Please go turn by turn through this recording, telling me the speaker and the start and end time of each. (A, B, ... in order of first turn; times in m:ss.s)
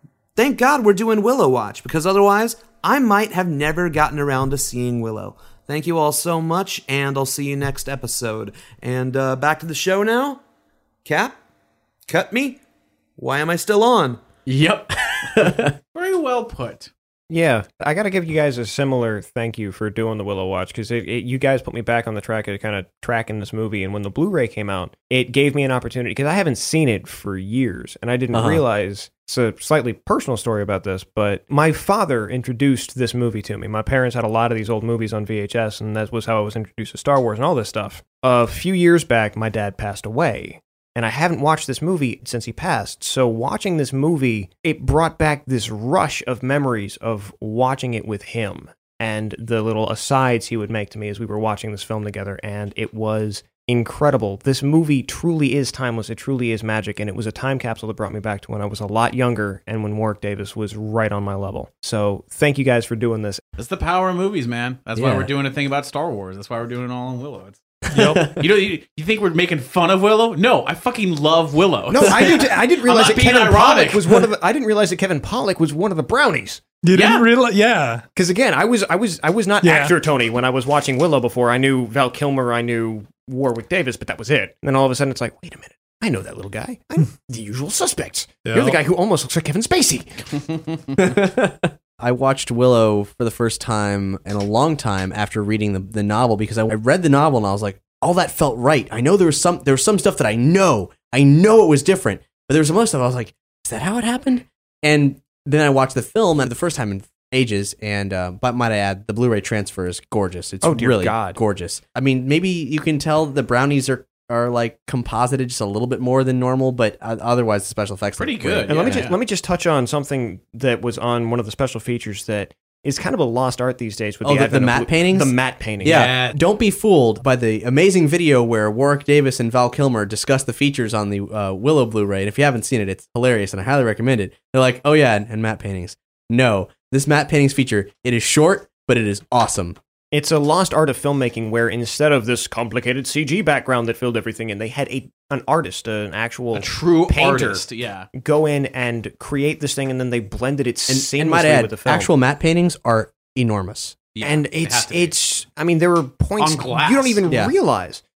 0:00.4-0:10.4 A
0:11.0-0:11.4 A
0:12.1-0:12.6 A
0:13.2-0:14.2 A
0:14.5-0:15.8 B
0:15.9-0:16.9 C
0:17.3-1:03.4 D
0:28.3-0:28.6 B
1:03.6-1:07.6 C
1:05.0-1:05.3 B
1:07.9-1:08.3 E
1:08.0-1:08.4 B
1:08.4-1:14.0 C
1:11.9-1:16.7 D
1:12.0-1:12.4 B
1:16.8-1:18.0 E
1:16.9-1:17.3 C
1:18.2-1:30.5 D
1:19.6-1:20.0 E
1:28.5-1:28.8 E
1:31.0-1:59.1 B
1:50.6-1:51.4 D
1:58.2-1:59.2 C
1:58.7-2:06.1 D
2:04.2-2:19.8 B
2:05.8-2:06.4 C
2:20.1-2:32.1 D
2:26.5-2:28.1 C
2:30.9-2:34.0 B
2:34.1-2:35.2 C
2:34.2-2:38.0 D
2:36.4-2:37.2 C
2:37.3-2:37.5 B